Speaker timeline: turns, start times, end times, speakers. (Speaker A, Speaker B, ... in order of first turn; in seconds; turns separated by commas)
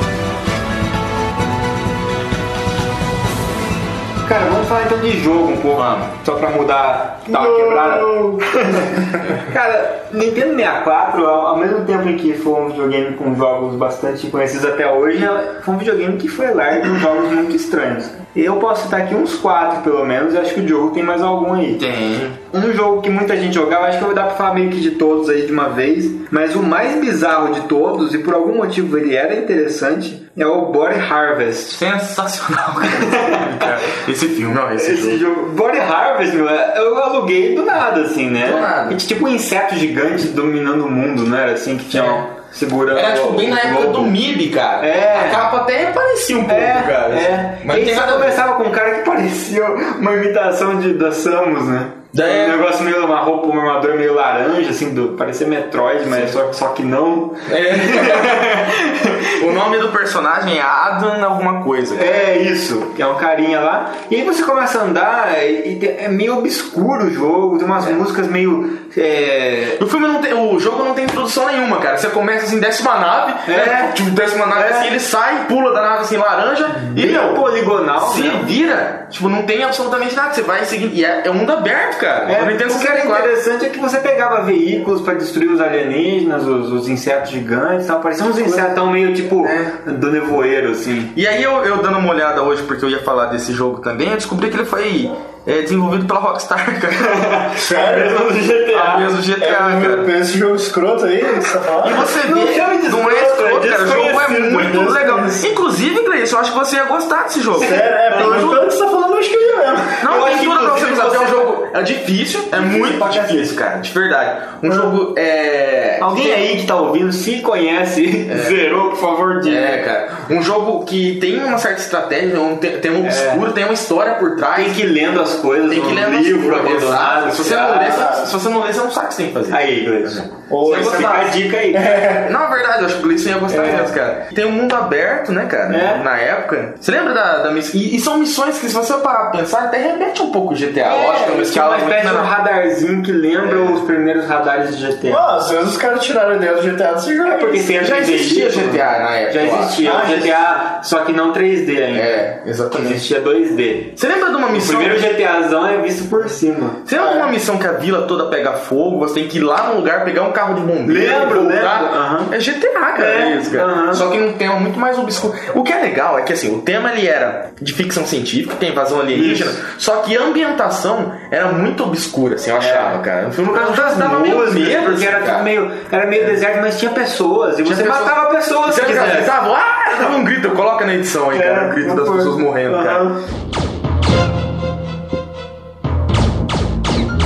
Speaker A: 4.2-21.8, Speaker B: 5.8-6.1, Speaker C: 7.3-9.1, Speaker B: 21.8-22.4, Speaker A: 22.5-31.8, Speaker B: 31.7-35.2, Speaker A: 32.9-33.7, Speaker A: 34.8-44.1, Speaker B: 38.4-39.0, Speaker B: 41.9-42.2, Speaker B: 42.9-48.4, Speaker A: 44.8-45.5, Speaker A: 46.5-59.3, Speaker B: 52.1-52.6, Speaker B: 57.5-58.6, Speaker B: 59.4-62.3, Speaker A: 61.9-69.8, Speaker B: 69.8-83.3, Speaker A: 73.5-74.0, Speaker A: 74.5-74.9, Speaker A: 76.8-78.5, Speaker A: 82.2-91.1, Speaker B: 89.4-89.7, Speaker B: 91.1-97.4, Speaker A: 97.0-99.1, Speaker C: 97.6-98.3, Speaker B: 98.7-100.1, Speaker C: 99.4-102.0, Speaker B: 101.8-108.6, Speaker A: 102.0-104.7, Speaker C: 104.5-105.5, Speaker C: 107.5-110.0, Speaker A: 107.6-108.5, Speaker B: 110.0-116.5, Speaker A: 110.0-111.5, Speaker A: 112.5-113.5, Speaker A: 116.0-119.8, Speaker B: 118.3-118.7, Speaker B: 119.4-124.8, Speaker A: 123.0-123.4, Speaker A: 124.5-128.1, Speaker B: 125.7-131.3, Speaker C: 127.9-128.2, Speaker A: 129.5-132.0, Speaker C: 130.5-132.3, Speaker B: 132.1-142.3, Speaker A: 133.5-133.9, Speaker A: 135.7-136.0, Speaker A: 140.8-145.2, Speaker B: 143.4-143.8, Speaker C: 145.1-147.7, Speaker A: 147.2-153.9, Speaker B: 147.7-150.2, Speaker C: 149.8-150.3, Speaker B: 151.9-153.0, Speaker B: 153.9-155.1, Speaker A: 154.5-156.8, Speaker B: 156.8-175.5, Speaker C: 156.9-157.3, Speaker A: 160.8-162.3, Speaker A: 162.9-164.0, Speaker A: 169.1-169.6, Speaker A: 172.6-173.0, Speaker A: 173.5-179.3, Speaker B: 177.6-183.1, Speaker A: 181.3-183.2